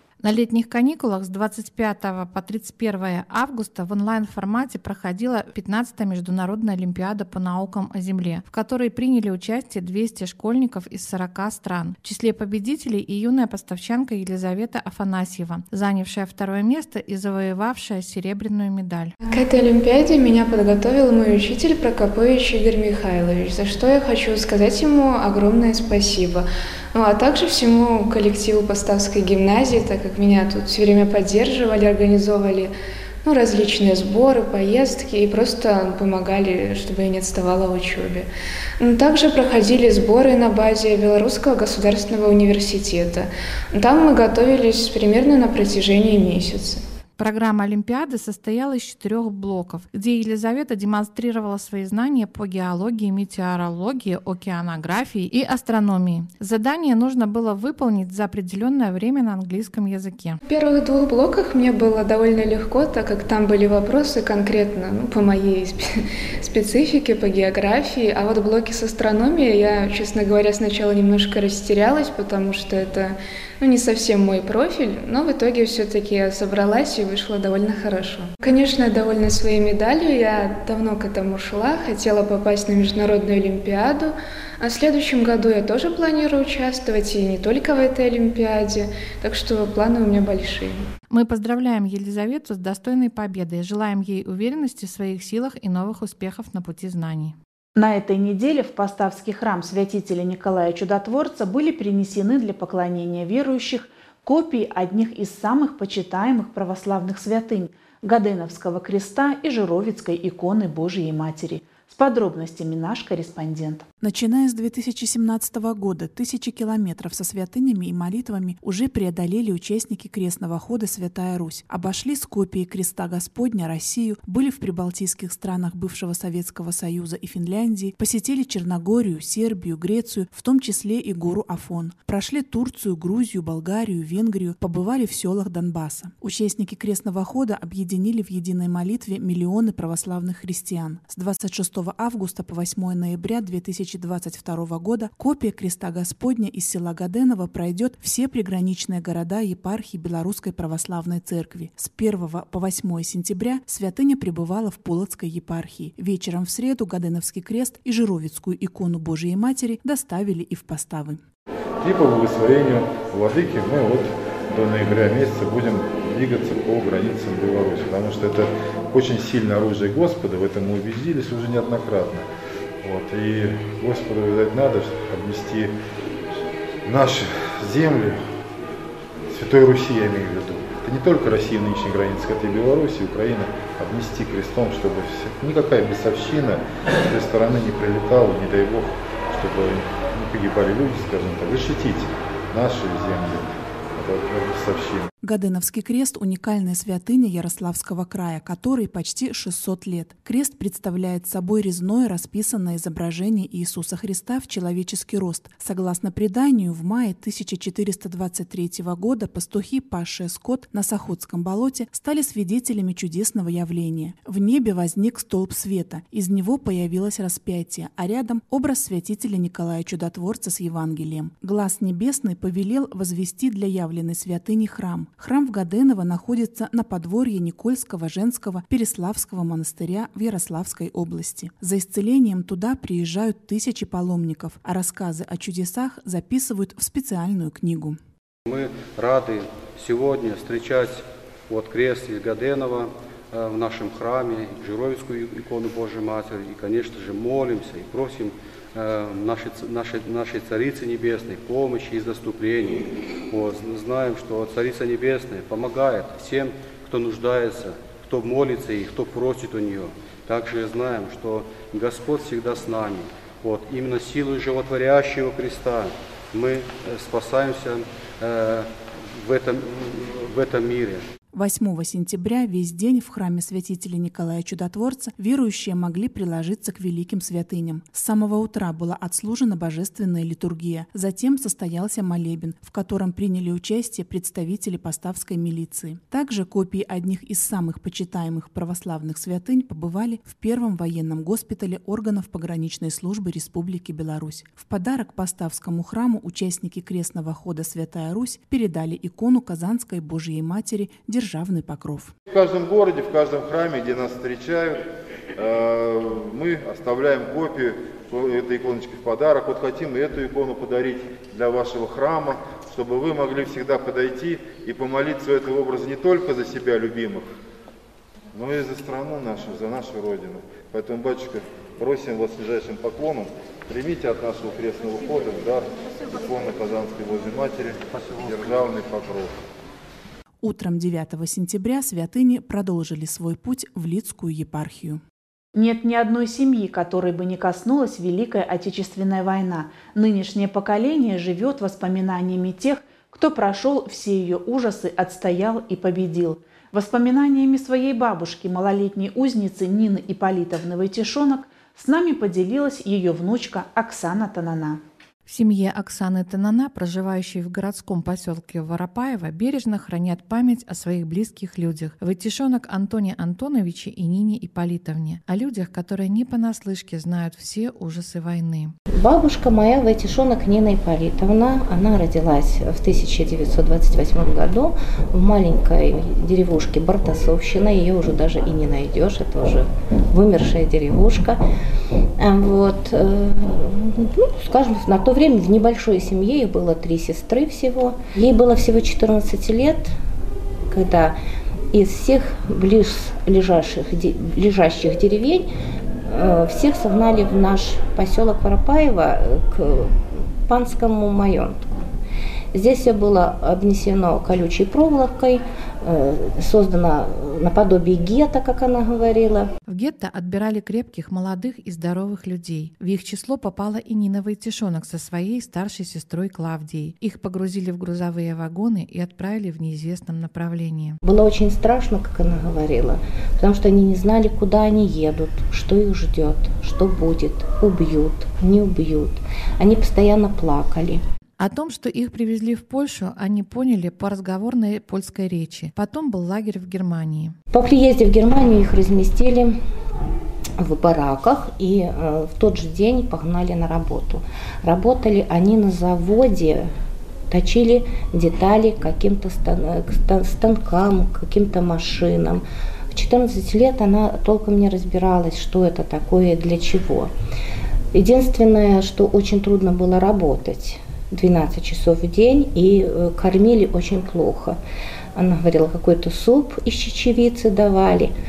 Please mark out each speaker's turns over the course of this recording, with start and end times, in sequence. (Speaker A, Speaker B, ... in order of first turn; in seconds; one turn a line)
Speaker A: 0.2-19.1
Speaker B: 19.3-32.7
Speaker B: 33.2-38.3
Speaker B: 38.8-46.8
Speaker A: 47.2-60.4
Speaker B: 60.5-90.9
Speaker A: 91.1-97.4
Speaker C: 97.8-113.8
Speaker D: 114.0-161.2
Speaker E: 161.8-172.3
Speaker E: 172.8-175.7
Speaker E: 176.8-178.2
Speaker E: 179.3-195.1
Speaker D: 195.2-238.0
Speaker F: 238.5-271.1
Speaker D: 271.3-302.1
Speaker E: 302.3-317.2
Speaker E: 318.3-329.3
Speaker D: 330.4-335.0
Speaker C: 335.6-354.8
Speaker A: 355.3-368.7
Speaker G: 369.0-381.4
Speaker G: 382.2-389.9
Speaker G: 390.7-391.2
Speaker G: 391.7-395.5
Speaker G: 396.1-401.8
Speaker G: 402.5-409.5
Speaker A: 409.7-421.0
Speaker G: 421.0-431.0
Speaker A: 431.4-437.4
Speaker G: 437.5-439.6
Speaker G: 440.6-446.7
Speaker G: 447.3-457.1
Speaker G: 457.9-464.6
Speaker G: 465.2-468.1